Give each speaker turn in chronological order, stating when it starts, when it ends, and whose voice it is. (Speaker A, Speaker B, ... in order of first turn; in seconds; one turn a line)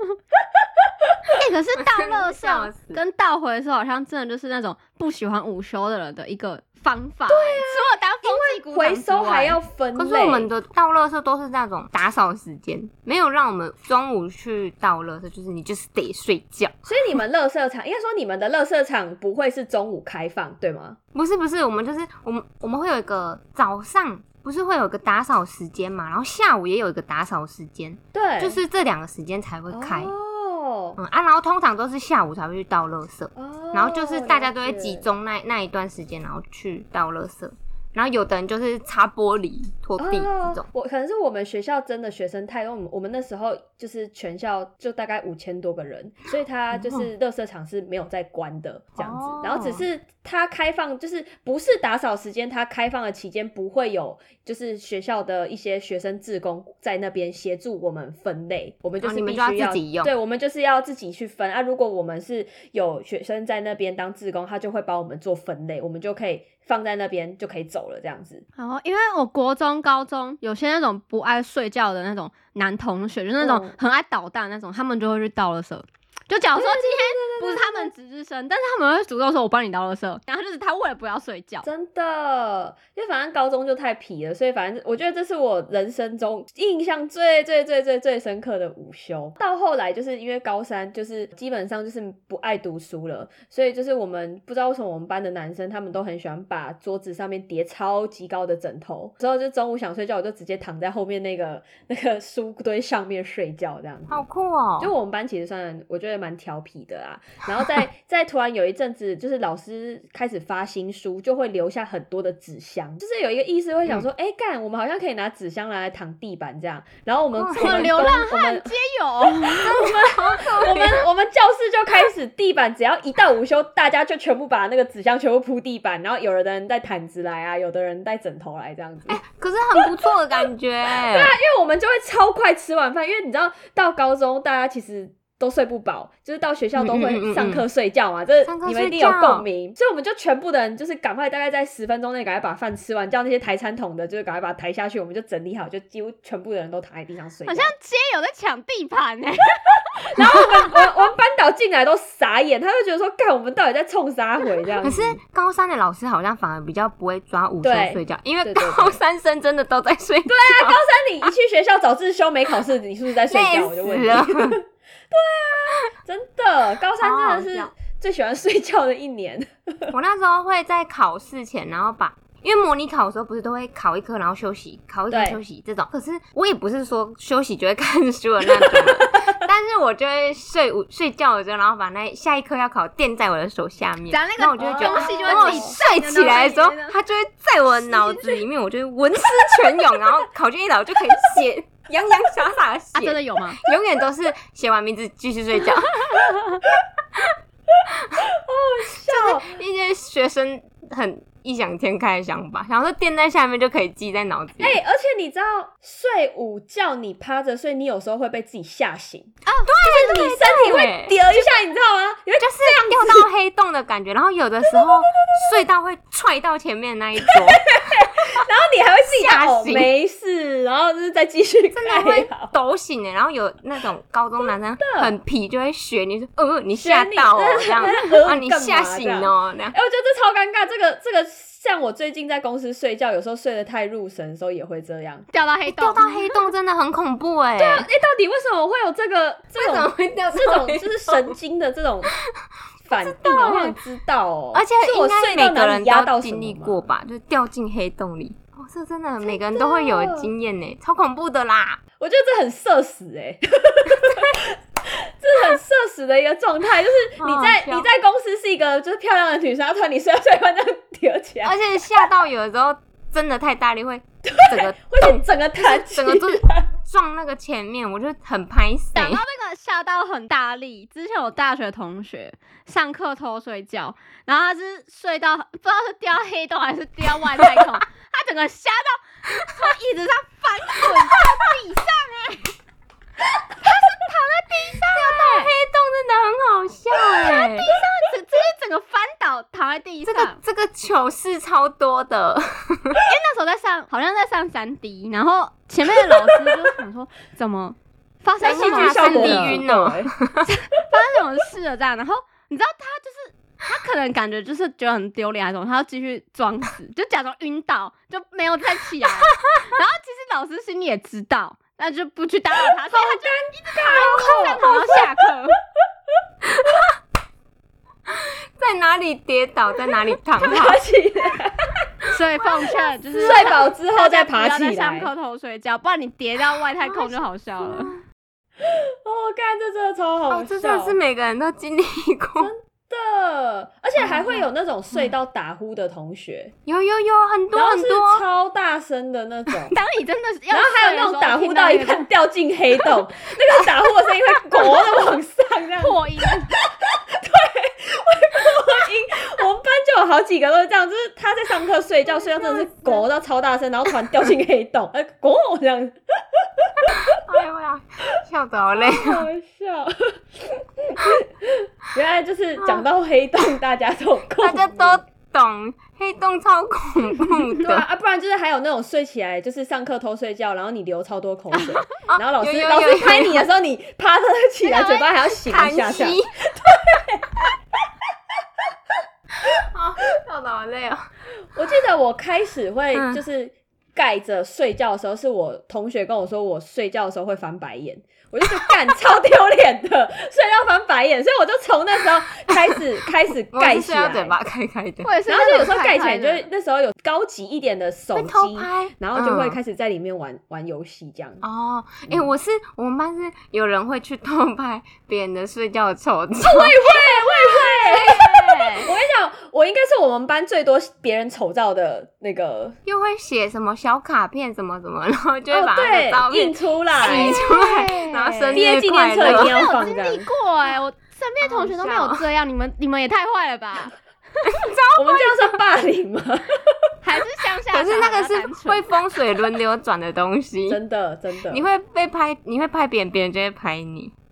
Speaker A: 0.6-1.3
Speaker B: 1.4-9.6
Speaker C: 1.8-3.0
Speaker A: 7.3-10.5
Speaker C: 9.9-16.9
Speaker A: 16.9-21.0
Speaker C: 21.1-30.1
Speaker A: 28.1-28.6
Speaker A: 29.7-31.0
Speaker C: 31.0-40.7
Speaker A: 33.4-35.0
Speaker A: 40.0-68.4
Speaker C: 46.7-47.1
Speaker C: 49.0-49.9
Speaker C: 59.0-60.1
Speaker B: 68.6-81.7
Speaker A: 73.4-73.8
Speaker A: 76.5-77.9
Speaker A: 81.6-104.2
Speaker C: 104.1-104.9
Speaker A: 104.8-118.7
Speaker C: 117.3-118.0
Speaker B: 117.5-119.7
Speaker A: 119.3-129.2
Speaker C: 119.5-121.0
Speaker C: 129.1-131.3
Speaker A: 131.1-147.7
Speaker C: 136.8-137.6
Speaker C: 138.4-139.4
Speaker B: 147.5-150.8
Speaker A: 150.1-155.2
Speaker C: 154.8-160.8
Speaker A: 157.6-158.9
Speaker A: 160.3-169.9
Speaker C: 163.3-164.6
Speaker C: 167.0-167.7
Speaker C: 169.9-196.0
Speaker A: 175.1-175.4
Speaker A: 178.6-179.3
Speaker B: 184.1-187.0
Speaker A: 184.6-185.8
Speaker B: 187.8-188.4
Speaker B: 192.9-193.6
Speaker A: 198.3-199.6
Speaker C: 199.1-204.8
Speaker A: 204.6-213.3
Speaker B: 209.4-209.7
Speaker C: 209.6-211.5
Speaker C: 212.4-217.6
Speaker A: 217.2-222.5
Speaker C: 219.1-219.9
Speaker C: 221.7-229.7
Speaker A: 224.8-225.1
Speaker A: 226.7-235.3
Speaker B: 235.3-236.4
Speaker C: 235.7-237.8
Speaker A: 237.6-242.1
Speaker C: 239.6-241.3
Speaker A: 242.8-246.8
Speaker C: 242.9-243.8
Speaker C: 244.5-251.8
Speaker A: 249.2-250.3
Speaker A: 252.0-262.0
Speaker C: 257.2-257.9
Speaker C: 261.4-269.2
Speaker A: 264.3-266.7
Speaker B: 268.9-282.5
Speaker C: 280.8-281.2
Speaker B: 283.6-285.5
Speaker C: 284.9-287.7
Speaker B: 287.2-290.4
Speaker C: 290.0-293.0
Speaker B: 293.0-299.6
Speaker A: 296.0-296.6
Speaker C: 298.4-300.5
Speaker A: 298.4-300.1
Speaker B: 300.5-315.6
Speaker A: 312.9-315.1
Speaker C: 316.5-316.8
Speaker C: 318.1-320.8
Speaker A: 320.4-321.8
Speaker B: 322.1-328.0
Speaker A: 323.1-325.1
Speaker C: 326.8-327.9
Speaker A: 328.6-331.0
Speaker C: 330.3-332.5
Speaker A: 332.4-336.5
Speaker C: 336.6-338.2
Speaker A: 337.5-339.8
Speaker B: 339.7-342.1
Speaker A: 340.5-357.1
Speaker B: 345.8-346.5
Speaker C: 356.9-359.3
Speaker A: 358.7-365.0
Speaker C: 362.6-362.8
Speaker C: 364.4-367.8
Speaker A: 367.6-377.5
Speaker C: 372.1-373.4
Speaker C: 374.6-376.3
Speaker C: 379.4-381.1
Speaker A: 381.5-394.4
Speaker C: 382.9-383.2
Speaker C: 393.5-395.1
Speaker B: 395.0-396.5
Speaker A: 395.3-401.4
Speaker C: 398.1-399.6
Speaker C: 401.4-408.8
Speaker A: 406.4-408.2
Speaker B: 407.9-408.9
Speaker A: 408.8-412.8
Speaker C: 412.8-419.6
Speaker A: 415.5-417.4
Speaker B: 417.0-418.6
Speaker A: 418.5-420.3
Speaker B: 419.1-423.9
Speaker C: 421.4-422.2
Speaker C: 424.4-425.6
Speaker A: 424.9-426.9
Speaker B: 427.0-428.8
Speaker C: 427.7-430.8
Speaker A: 430.7-431.7
Speaker C: 431.5-434.1